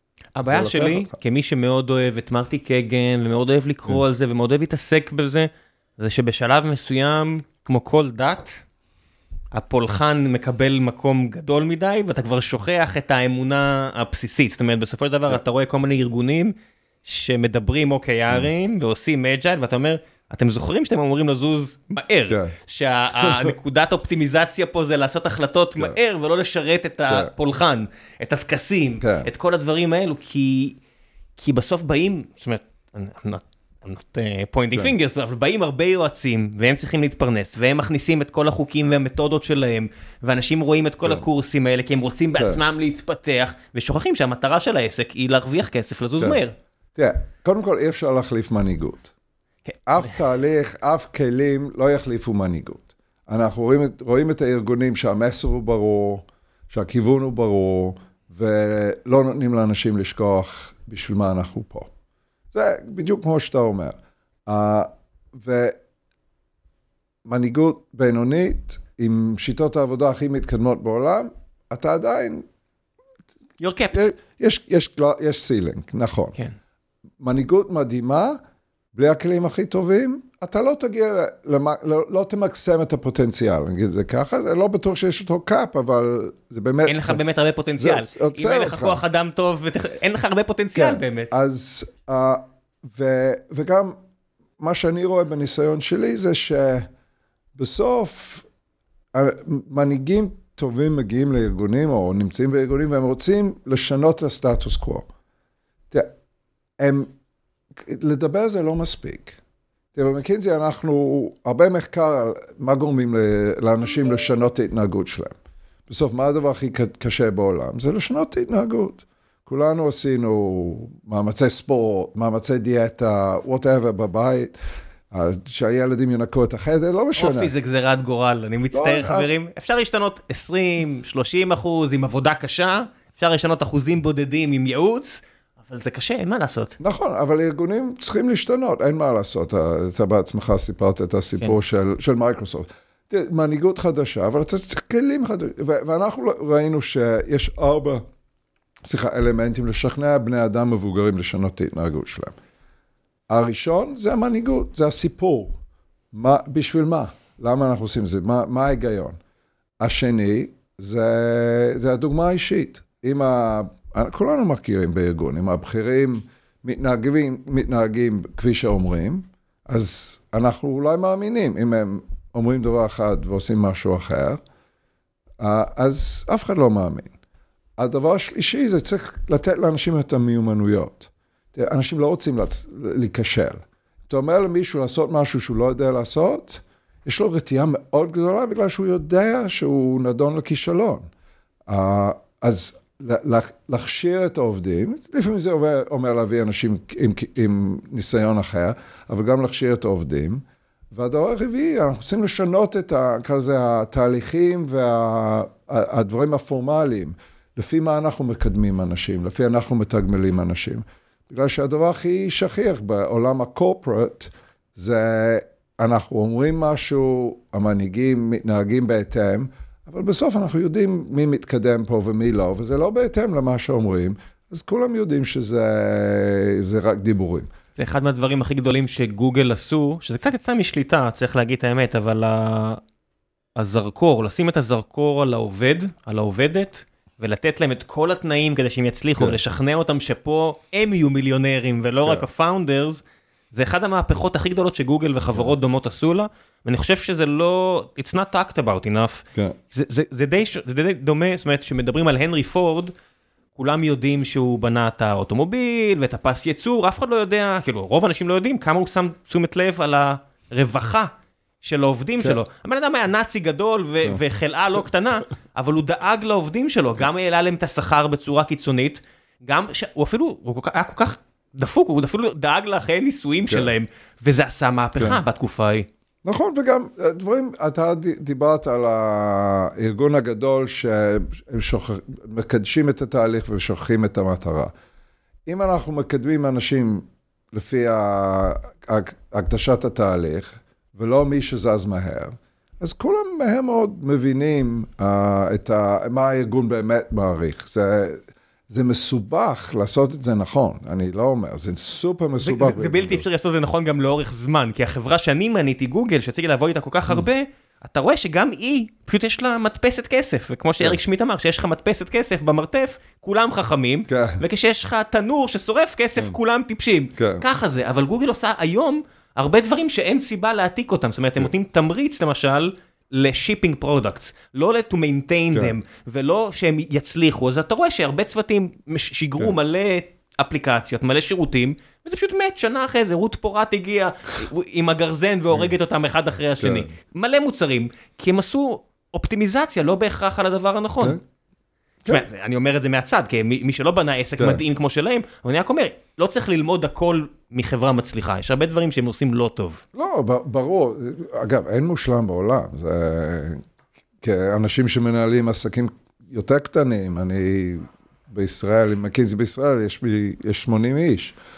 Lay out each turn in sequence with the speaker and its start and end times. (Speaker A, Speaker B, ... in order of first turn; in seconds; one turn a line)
Speaker A: 0.4-8.6
Speaker B: 0.4-1.1
Speaker A: 9.5-30.8
Speaker B: 22.3-22.5
Speaker B: 23.2-23.5
Speaker B: 29.0-29.3
Speaker A: 31.4-46.5
Speaker B: 42.4-42.6
Speaker B: 47.0-49.1
Speaker A: 49.7-50.2
Speaker B: 49.9-61.9
Speaker B: 62.5-65.8
Speaker B: 67.2-72.5
Speaker A: 73.6-74.1
Speaker B: 73.9-76.4
Speaker B: 77.2-78.4
Speaker B: 78.9-87.2
Speaker A: 86.9-91.3
Speaker B: 87.8-89.0
Speaker B: 90.8-94.0
Speaker B: 94.6-96.9
Speaker B: 97.5-98.5
Speaker B: 99.1-105.1
Speaker B: 106.8-107.1
Speaker B: 107.7-109.4
Speaker B: 110.0-115.4
Speaker B: 115.9-124.5
Speaker B: 125.1-127.5
Speaker A: 127.2-136.8
Speaker B: 128.7-129.3
Speaker B: 136.8-148.0
Speaker B: 148.8-152.4
Speaker B: 153.3-155.6
Speaker B: 156.1-159.2
Speaker B: 159.8-174.4
Speaker B: 175.4-177.1
Speaker B: 177.8-191.1
Speaker B: 191.7-227.5
Speaker A: 227.8-232.8
Speaker A: 233.6-252.9
Speaker A: 253.6-261.1
Speaker A: 261.6-275.9
Speaker B: 276.2-284.7
Speaker B: 285.5-303.3
Speaker A: 302.4-341.2
Speaker B: 314.1-314.4
Speaker B: 317.2-317.4
Speaker B: 336.6-336.9
Speaker A: 342.1-349.8
Speaker B: 349.9-353.6
Speaker B: 354.2-361.4